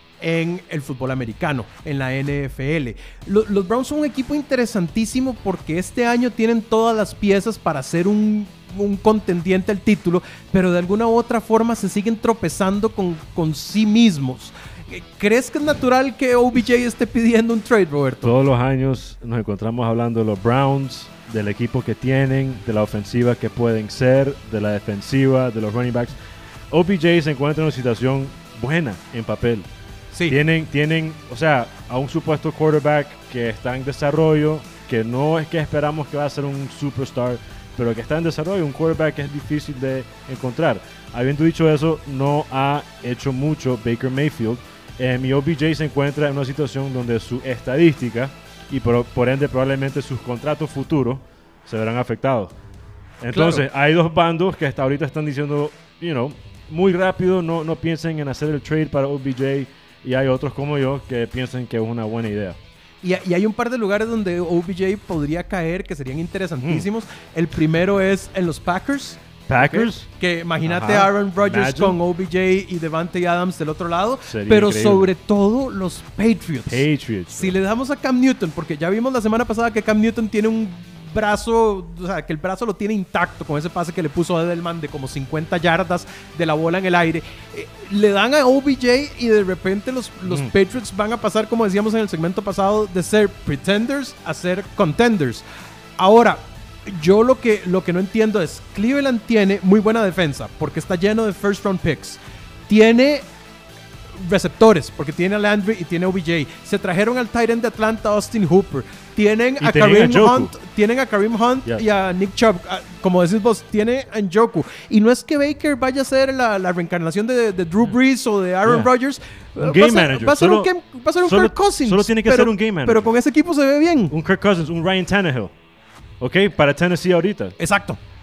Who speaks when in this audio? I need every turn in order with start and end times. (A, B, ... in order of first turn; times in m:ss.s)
0:00.2-0:18.4 A
0:18.2-0:26.2 B
0:26.7-0:29.7 B
0:30.3-0:52.5 B
0:53.2-1:02.6 B
0:53.3-0:53.6 A
1:03.0-1:35.4 A
1:06.6-1:06.9 B
1:09.5-1:10.1 B
1:10.6-1:12.0 B
1:14.3-1:15.1 B
1:16.7-1:17.6 B
1:30.3-1:30.5 B
1:36.0-1:43.3 A
1:44.2-2:04.1 A
1:49.6-1:50.5 B
1:59.6-2:00.7 B
2:01.2-2:03.1 B
2:04.1-2:05.5 B
2:06.2-2:07.6 B
2:07.6-2:08.0 A